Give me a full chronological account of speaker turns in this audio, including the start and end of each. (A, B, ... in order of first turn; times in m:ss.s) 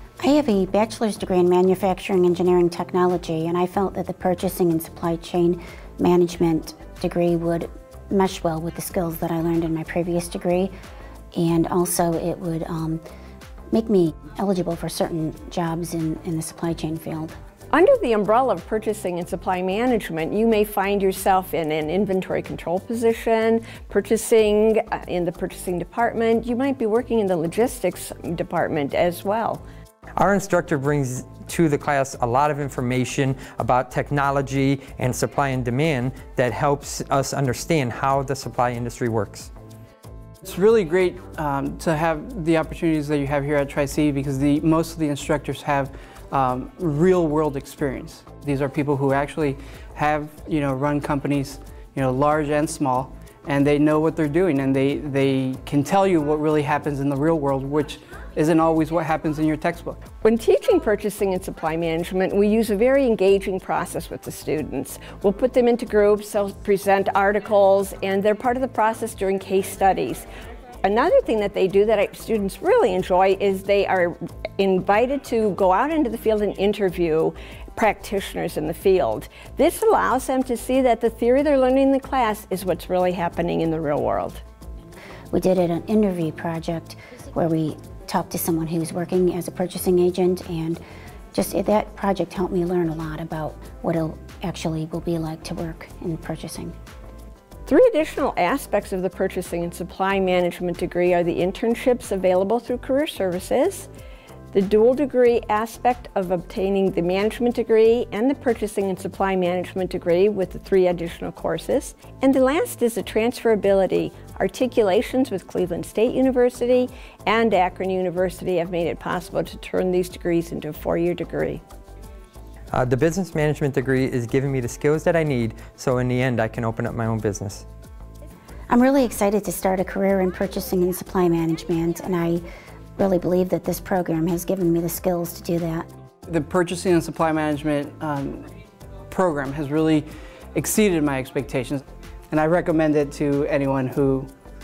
0:00.2-0:10.7 A
0:11.4-0:13.0 A
0:13.7-0:17.4 A
0:17.7-0:29.6 B
0:30.2-0:39.5 C
0:40.4-1:00.0 D
1:00.2-1:10.3 B
1:10.8-1:24.4 B
1:25.3-1:30.8 A
1:31.3-1:36.8 A
1:37.7-1:43.9 B
1:44.5-2:01.6 B
2:02.7-2:07.6 C
2:08.7-2:12.4 A
2:13.0-2:15.9 A
2:16.3-2:18.5 D
2:19.1-2:24.3 D